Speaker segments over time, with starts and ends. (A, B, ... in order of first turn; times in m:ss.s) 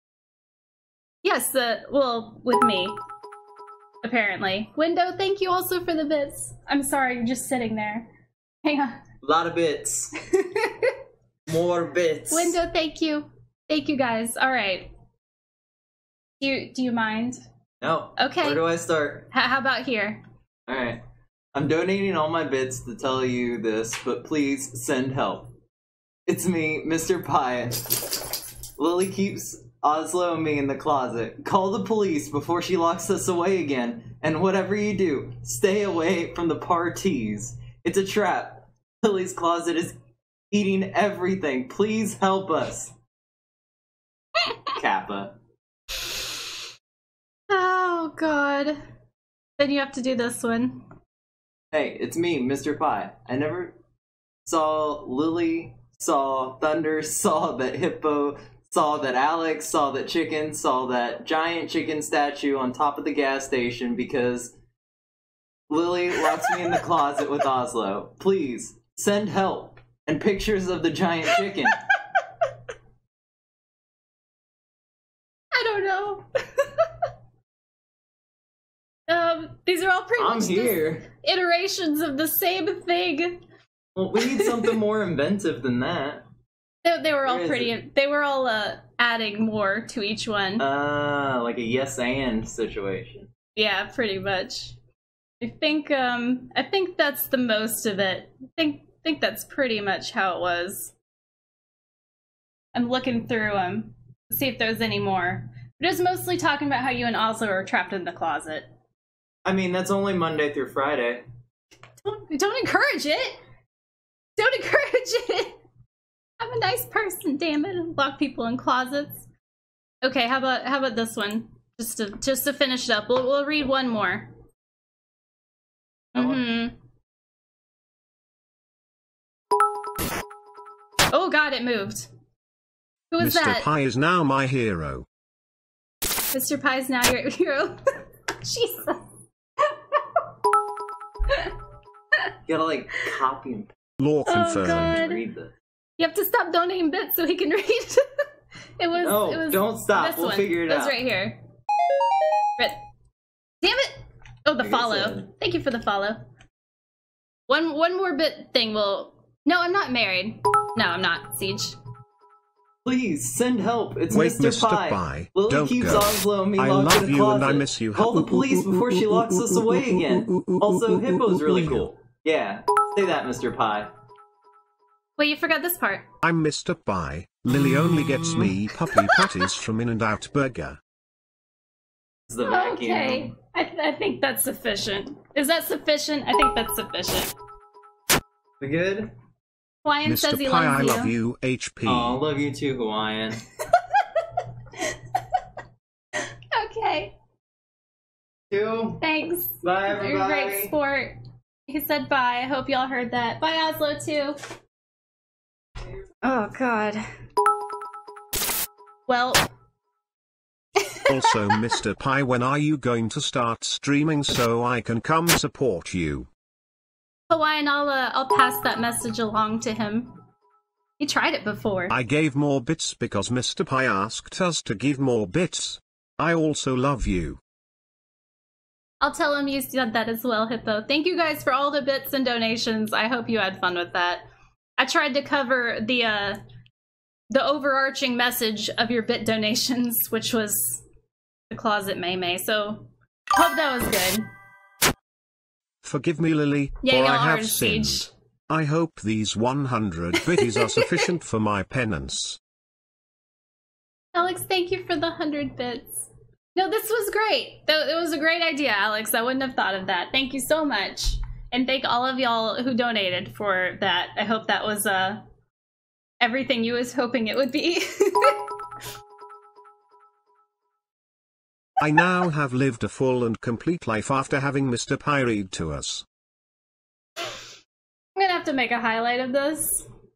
0:01.2-0:03.0 A
0:04.0-0:08.1 A
0:08.6-0:09.0 A
0:09.2-0:10.1 B
0:10.3-0:10.9 A
0:11.5-0:12.5 B
0:12.3-0:14.9 A
0:16.4-0:17.4 A
0:17.8-0:19.3 B
0:18.2-0:18.6 A
0:19.3-0:20.2 A
0:20.7-0:21.0 B
0:21.5-0:25.5 B
0:26.3-0:28.2 B
0:28.8-0:40.0 B
0:40.5-0:42.9 B
0:44.7-0:45.3 B
0:47.5-0:48.8 A
0:49.6-0:50.8 A
0:51.7-0:53.7 B
0:54.4-1:04.5 B
1:05.7-1:11.7 B
1:15.5-1:16.9 A
1:19.1-1:23.4 A
1:20.2-1:21.0 B
1:24.0-1:26.2 B
1:24.3-1:24.7 A
1:26.8-1:30.6 A
1:27.2-1:27.7 B
1:30.6-1:33.3 B
1:33.6-1:34.8 A
1:35.4-1:40.9 A
1:42.7-1:48.7 A
1:49.4-1:51.2 B
1:52.0-1:53.4 A
1:54.4-1:55.6 A
1:56.4-1:59.3 A
2:00.0-2:04.3 A
2:06.1-2:06.7 A
2:11.1-2:12.1 A
2:13.1-2:13.7 A
2:13.2-2:15.0 C
2:16.3-2:17.8 A
2:18.4-2:19.0 A
2:19.9-2:20.2 A
2:22.4-2:23.7 B
2:24.0-2:25.0 C
2:24.2-2:25.2 A
2:24.6-2:25.5 B
2:26.0-2:28.0 A
2:28.8-2:31.4 A
2:29.0-2:31.0 B
2:33.6-2:36.2 A
2:34.6-2:35.2 B
2:37.5-2:41.8 A
2:42.8-2:53.9 B
2:44.1-2:48.2 C
2:55.2-2:56.0 A
2:56.2-3:00.8 C
3:02.3-3:03.3 B
3:02.4-3:07.3 A
3:08.6-3:09.1 B
3:09.8-3:11.1 A
3:10.0-3:12.2 C
3:11.8-3:13.4 B
3:16.5-3:17.1 A
3:18.5-3:19.0 B
3:19.0-3:24.4 A
3:19.6-3:20.7 B
3:26.2-3:27.0 A
3:29.1-3:29.4 A
3:30.8-3:31.6 A
3:31.1-3:36.3 C
3:37.3-3:40.2 A
3:41.0-3:42.0 A
3:41.9-3:47.4 C
3:49.0-3:54.2 A
3:54.8-3:56.4 A
3:57.3-4:00.8 A
4:01.5-4:04.3 A
4:05.8-4:12.4 C
4:06.8-4:08.1 A
4:10.4-4:10.9 A
4:14.1-4:25.2 A
4:26.2-4:28.5 A
4:31.8-4:36.0 C
4:38.2-4:39.9 A